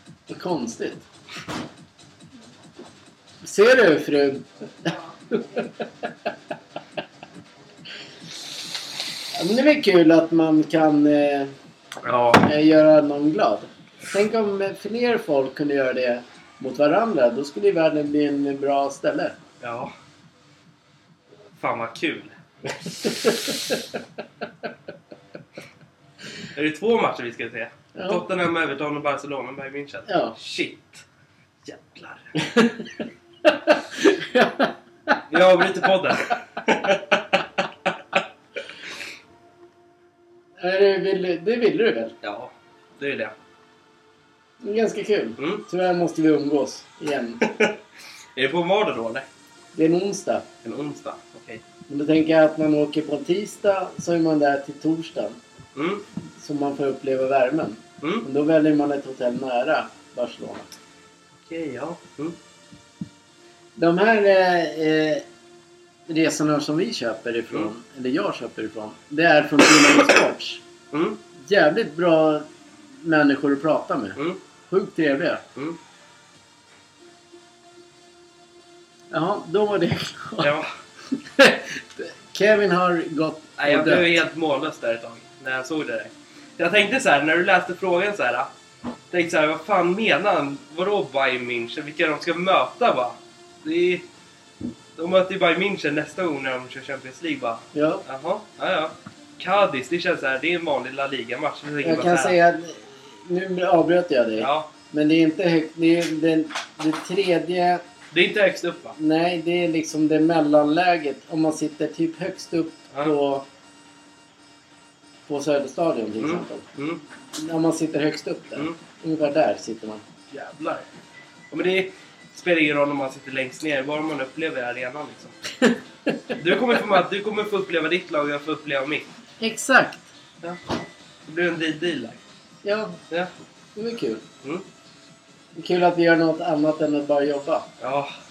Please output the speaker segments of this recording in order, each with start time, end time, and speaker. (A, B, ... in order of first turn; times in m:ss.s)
0:00.3-0:01.0 A
0:03.4-0:05.7 A
0:09.4-0:11.5 A
0:12.0-0:12.5 B
0:12.4-0:19.4 A
0:19.6-0:19.9 B
0:21.6-0:22.4 B
0:23.0-0:23.7 A
0:26.5-0:31.0 B
0:28.0-0:28.3 A
0:30.1-0:30.4 A
0:31.6-0:32.3 B
0:32.4-0:35.2 A
0:35.3-0:37.2 B
0:40.6-0:42.1 A
0:42.2-0:43.3 B
0:44.6-0:47.5 A
0:45.4-0:45.7 B
0:47.4-0:47.8 B
0:48.4-0:49.3 B
0:49.8-0:50.5 A
0:50.6-0:51.6 B
0:51.9-0:55.4 A
0:55.8-0:56.0 B
0:56.4-1:00.7 A
1:01.4-1:02.4 B
1:03.8-1:05.2 A
1:06.1-1:10.6 A
1:10.9-1:11.2 B
1:11.4-1:12.4 A
1:13.0-1:15.4 A
1:19.1-1:20.5 A
1:20.4-1:20.7 B
1:21.1-1:24.2 A
1:23.6-1:28.5 B
1:29.1-1:34.0 B
1:35.0-1:42.4 B
1:37.7-1:38.0 A
1:41.8-1:47.8 A
1:44.4-1:44.7 B
1:48.1-1:49.0 B
1:49.0-1:53.4 A
1:55.3-1:56.6 A
1:56.2-1:57.0 B
1:57.3-2:00.0 A
2:00.3-2:00.9 B
2:01.5-2:05.3 B
2:05.6-2:06.4 A
2:06.4-2:09.0 B
2:09.4-2:10.1 A
2:11.3-2:12.2 B
2:12.6-2:13.0 A
2:13.8-2:14.2 A
2:15.6-2:17.7 A
2:17.8-2:18.1 B